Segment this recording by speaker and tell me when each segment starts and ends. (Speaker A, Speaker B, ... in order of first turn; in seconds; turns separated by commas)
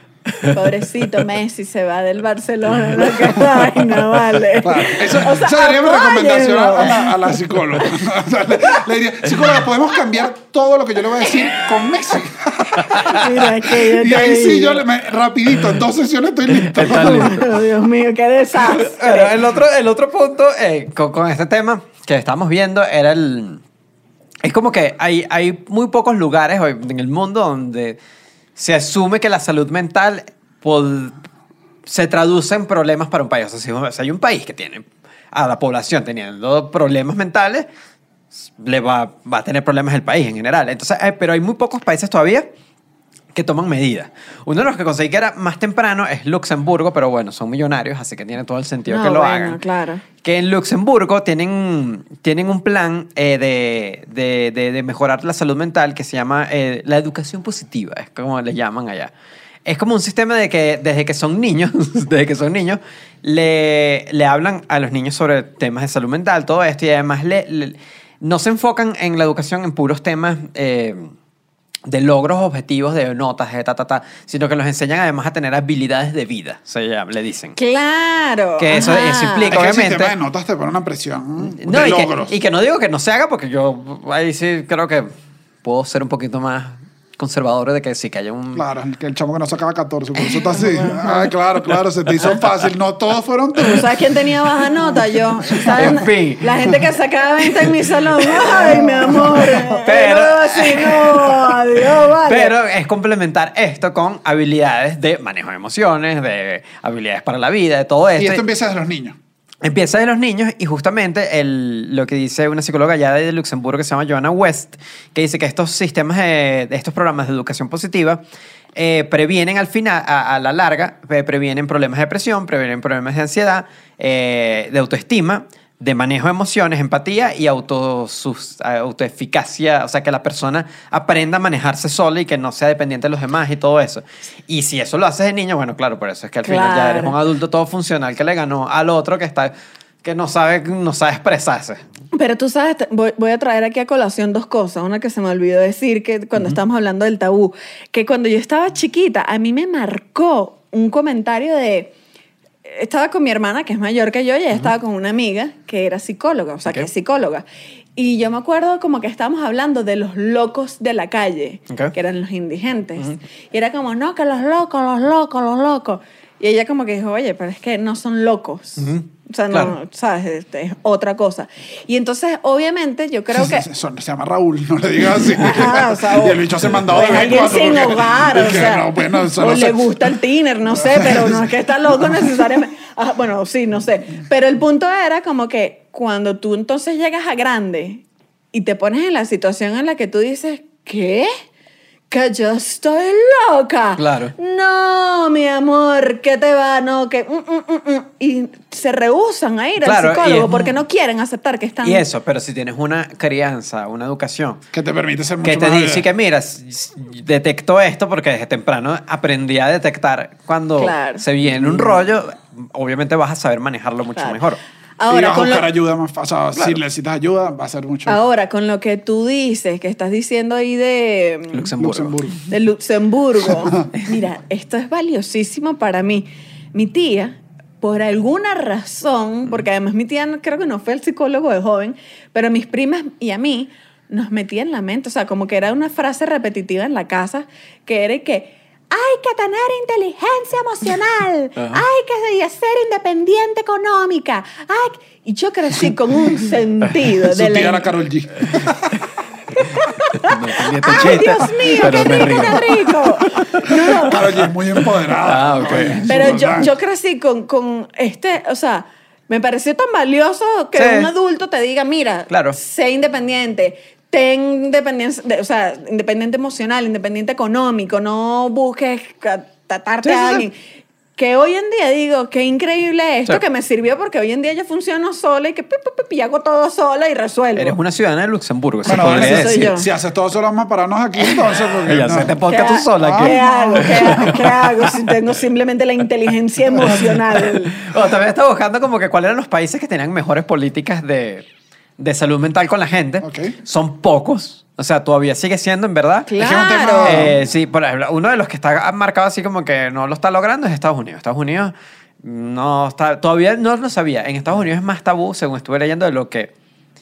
Speaker A: 0.5-7.1, Speaker B: 3.1-3.4, Speaker C: 4.6-17.4, Speaker A: 13.1-14.8, Speaker B: 16.5-17.6, Speaker A: 16.9-19.3, Speaker B: 18.6-23.6, Speaker B: 24.4-28.0, Speaker B: 28.6-31.2, Speaker B: 31.9-37.7, Speaker B: 38.6-42.5, Speaker B: 43.3-49.6, Speaker A: 48.9-50.0, Speaker B: 50.2-59.1, Speaker B: 59.6-71.1, Speaker B: 71.8-77.6, Speaker A: 77.5-79.5, Speaker B: 78.6-80.1, Speaker C: 79.5-82.3, Speaker B: 81.5-85.1, Speaker B: 85.6-88.6, Speaker C: 88.5-94.0, Speaker A: 90.5-91.2, Speaker A: 93.6-102.5, Speaker B: 95.5-96.5, Speaker C: 98.3-99.8, Speaker B: 99.8-108.4, Speaker C: 108.2-109.2, Speaker B: 109.6-118.2, Speaker B: 118.7-141.8, Speaker A: 136.4-137.1, Speaker A: 142.1-151.9, Speaker A: 152.6-157.4, Speaker A: 157.9-173.7, Speaker B: 168.8-169.7, Speaker C: 173.3-179.8, Speaker A: 175.3-191.3, Speaker C: 180.8-181.3, Speaker A: 192.1-202.0, Speaker B: 194.0-194.3, Speaker B: 199.8-200.7, Speaker B: 201.8-204.6, Speaker C: 204.7-206.1, Speaker B: 205.4-214.6, Speaker A: 210.8-211.2, Speaker C: 211.5-211.9, Speaker A: 215.0-215.7, Speaker C: 215.1-218.2, Speaker A: 218.1-221.7, Speaker B: 221.5-222.3, Speaker C: 221.8-222.4, Speaker A: 222.5-247.9, Speaker B: 241.6-241.8, Speaker C: 247.2-249.0, Speaker A: 249.6-254.2, Speaker B: 250.2-253.0, Speaker C: 253.9-256.7, Speaker B: 254.8-256.3, Speaker A: 256.1-270.6, Speaker B: 260.7-261.1, Speaker B: 262.3-262.6, Speaker B: 270.0-270.4, Speaker A: 271.1-277.7, Speaker B: 277.5-279.8, Speaker C: 278.9-282.3, Speaker A: 278.9-279.9, Speaker B: 281.2-285.0, Speaker A: 282.5-287.8, Speaker C: 283.0-284.5, Speaker B: 286.8-291.4, Speaker B: 292.0-296.4, Speaker C: 293.2-293.5, Speaker A: 296.3-297.3, Speaker C: 296.4-297.4, Speaker B: 297.0-306.5